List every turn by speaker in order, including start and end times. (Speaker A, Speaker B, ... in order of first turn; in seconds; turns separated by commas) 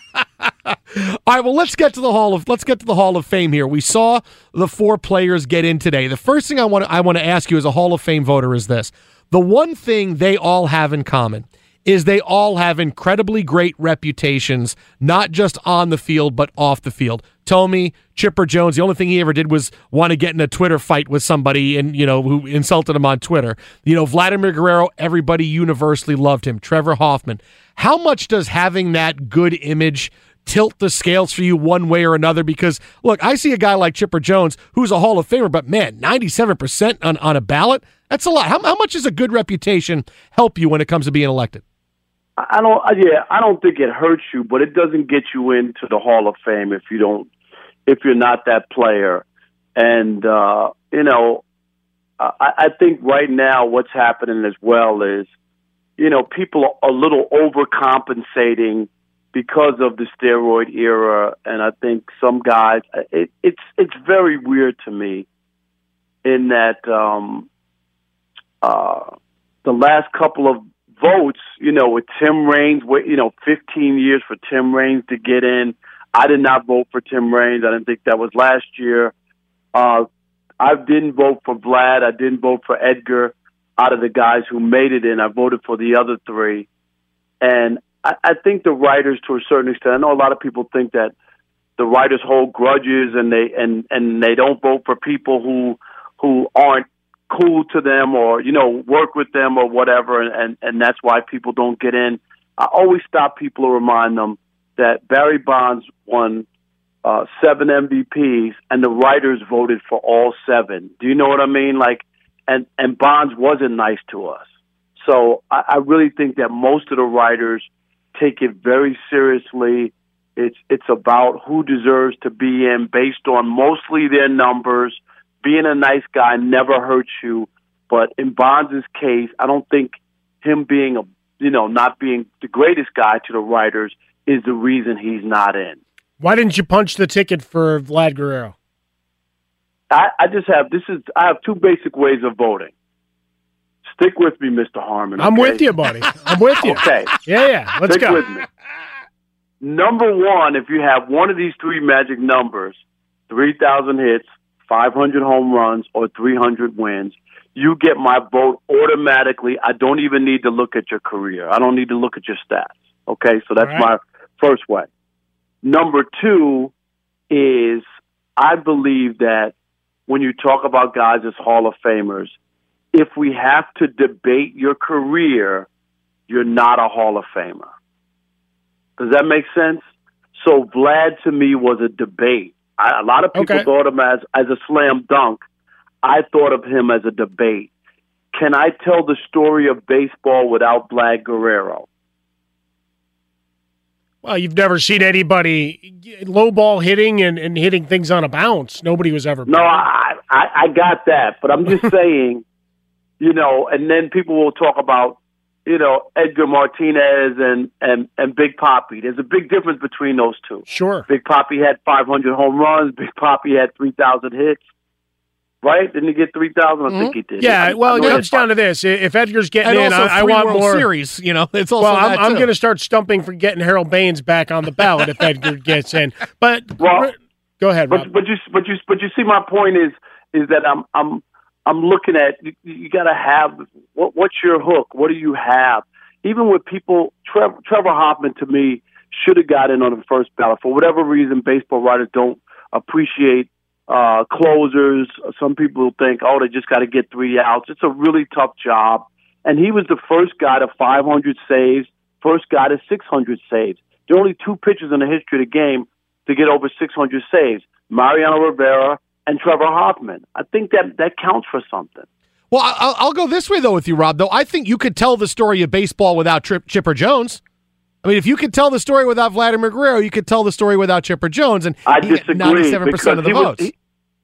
Speaker A: 0.7-41.6, Speaker B: 42.4-47.3, Speaker B: 47.9-49.2, Speaker B: 49.8-51.4, Speaker B: 52.2-55.3, Speaker B: 56.0-65.3, Speaker B: 66.2-67.5, Speaker B: 68.6-69.1, Speaker B: 69.7-79.1, Speaker B: 79.7-80.1, Speaker B: 80.6-86.7, Speaker B: 87.4-91.1, Speaker B: 91.8-106.5, Speaker B: 107.0-114.4, Speaker B: 115.0-135.8, Speaker C: 136.2-138.5, Speaker B: 139.9-142.7, Speaker B: 143.9-145.7, Speaker C: 145.2-148.3, Speaker B: 146.6-147.1, Speaker B: 147.9-148.4, Speaker B: 149.6-152.8, Speaker B: 153.3-164.9, Speaker C: 163.6-163.9, Speaker B: 165.6-166.7, Speaker B: 167.3-167.8, Speaker B: 168.4-169.5, Speaker B: 170.1-172.3, Speaker B: 172.9-175.7, Speaker B: 176.3-177.7, Speaker B: 179.0-185.4, Speaker C: 183.3-183.7, Speaker B: 186.0-187.7, Speaker B: 188.3-191.9, Speaker C: 194.2-199.8, Speaker B: 199.5-202.4, Speaker B: 203.2-214.6, Speaker C: 210.7-211.1, Speaker B: 215.6-218.5, Speaker A: 216.9-217.2, Speaker C: 217.4-220.9, Speaker A: 218.0-218.3, Speaker A: 219.6-222.5, Speaker C: 221.8-228.1, Speaker B: 226.8-227.1, Speaker B: 227.9-262.1, Speaker A: 262.5-267.4, Speaker A: 268.0-273.7, Speaker B: 271.9-273.7